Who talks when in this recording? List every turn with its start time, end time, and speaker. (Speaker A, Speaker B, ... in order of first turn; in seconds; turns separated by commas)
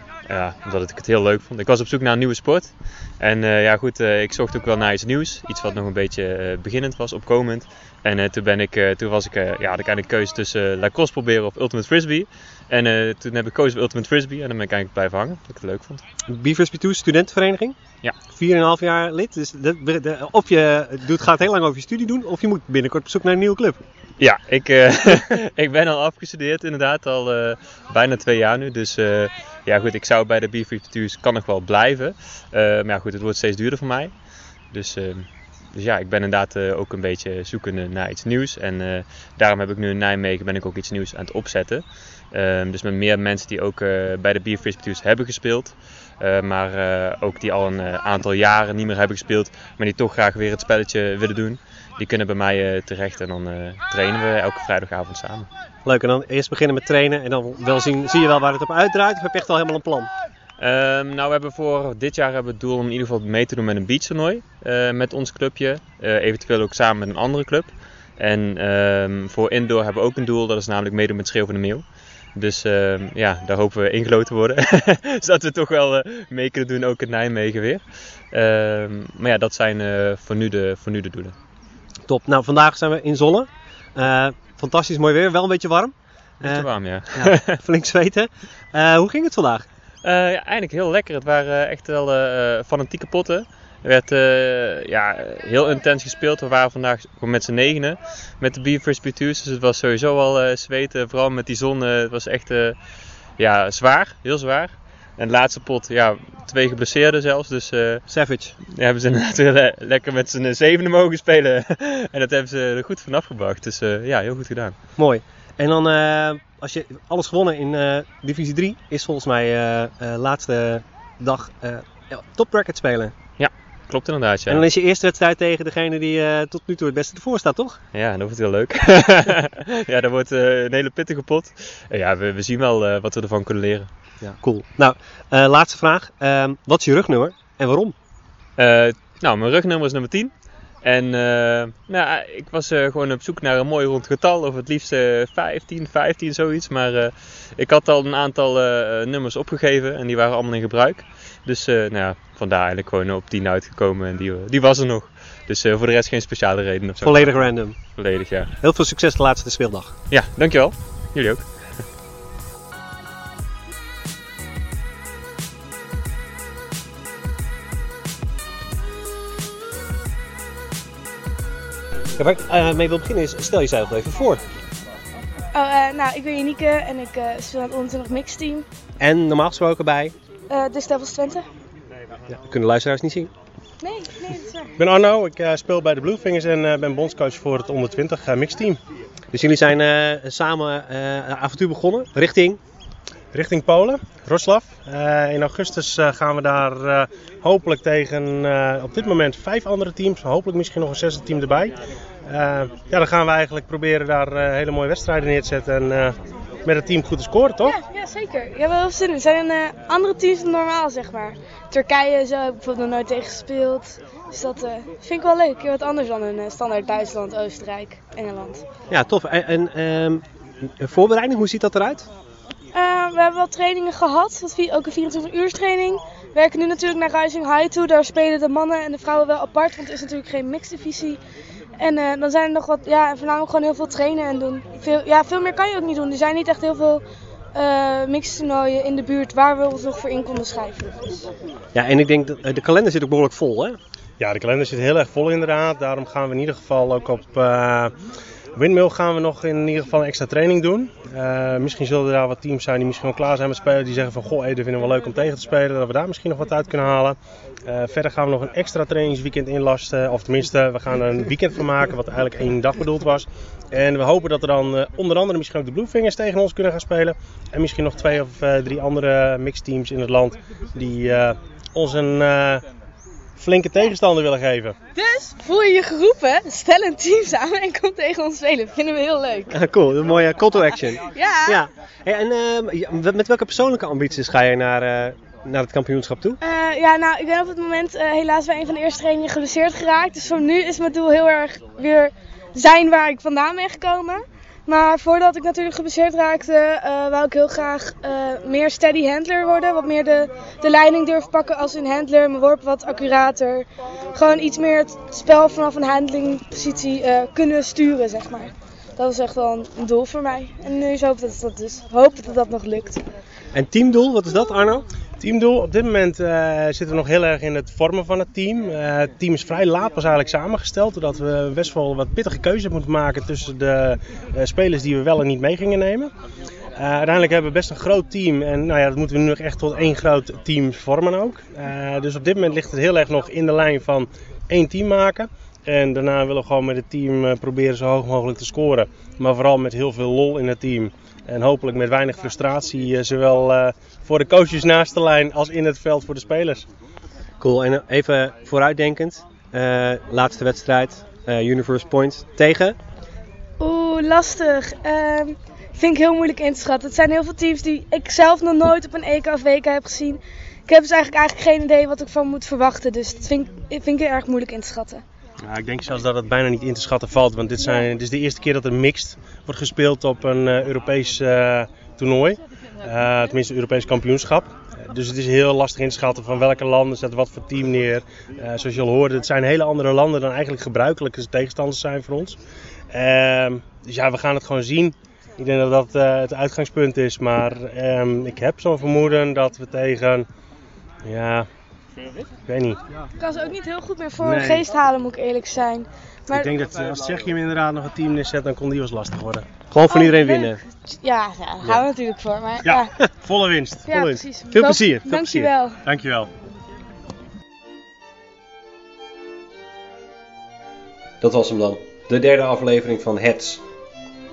Speaker A: 0.3-16.0, Speaker B: 16.3-23.8, Speaker A: 24.2-55.5, Speaker B: 55.8-60.1, Speaker A: 60.6-81.3, Speaker B: 82.0-89.7, Speaker A: 86.4-87.6, Speaker A: 90.0-102.8, Speaker A: 103.3-108.0, Speaker B: 108.1-108.6, Speaker A: 108.6-114.9, Speaker B: 115.0-123.2, Speaker A: 123.4-124.6, Speaker B: 124.5-127.8, Speaker A: 127.9-133.9, Speaker B: 134.2-137.9, Speaker A: 138.6-158.5, Speaker B: 157.0-159.9, Speaker A: 160.1-161.5, Speaker B: 172.2-174.4, Speaker C: 175.5-178.7, Speaker B: 179.0-180.1, Speaker C: 180.5-181.4, Speaker B: 182.3-183.3, Speaker C: 183.8-184.7, Speaker D: 184.8-188.8, Speaker B: 189.3-192.6, Speaker D: 193.3-207.7, Speaker C: 207.6-218.6, Speaker B: 218.9-220.2, Speaker B: 220.8-222.1, Speaker C: 222.7-231.2, Speaker C: 231.8-237.0, Speaker C: 237.5-241.3, Speaker B: 241.7-243.8, Speaker D: 244.2-247.9, Speaker D: 248.5-272.6, Speaker D: 273.4-274.8, Speaker C: 274.9-279.5, Speaker B: 279.5-286.4, Speaker C: 281.1-281.6, Speaker C: 286.4-313.0, Speaker B: 313.5-314.9, Speaker D: 315.2-326.1, Speaker D: 326.8-346.6, Speaker B: 347.4-352.8, Speaker C: 353.6-365.0, Speaker D: 365.4-382.4, Speaker D: 382.9-390.3, Speaker D: 391.0-391.5, Speaker D: 392.4-392.8, Speaker C: 393.2-396.5, Speaker D: 394.2-394.6, Speaker D: 396.3-399.5, Speaker B: 399.7-400.6, Speaker C: 399.9-402.9, Speaker D: 402.6-404.2, Speaker C: 403.9-405.8, Speaker B: 404.5-405.5, Speaker D: 405.8-406.3, Speaker B: 411.2-413.6